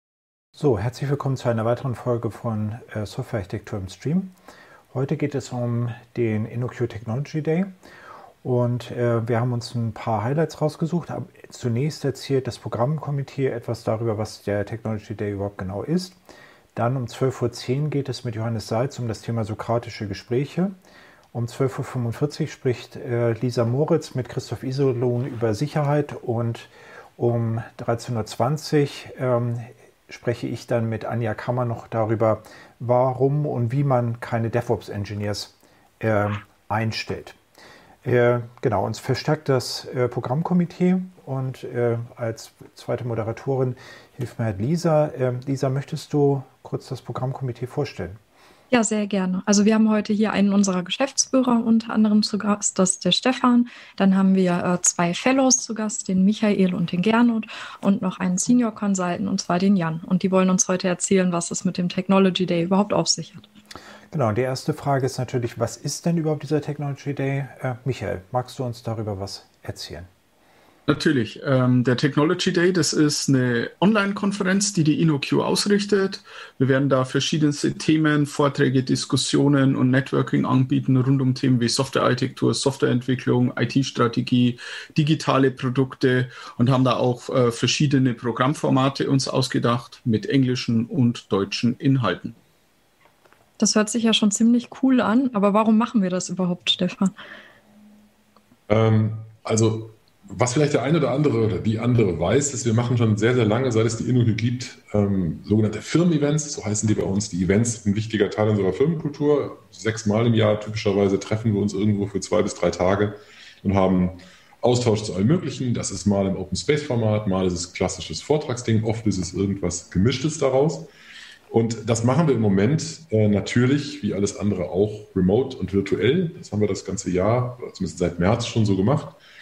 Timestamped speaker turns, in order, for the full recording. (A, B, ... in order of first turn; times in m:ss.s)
0:00.6-0:04.3 A
0:04.9-0:07.7 A
0:08.4-0:16.2 A
0:16.8-0:20.7 A
0:21.3-0:37.4 A
0:38.0-0:48.2 A
0:48.7-1:03.4 B
1:04.1-1:10.1 A
1:10.9-1:32.4 C
1:33.6-1:37.1 B
1:38.7-2:00.9 D
2:01.5-2:09.2 D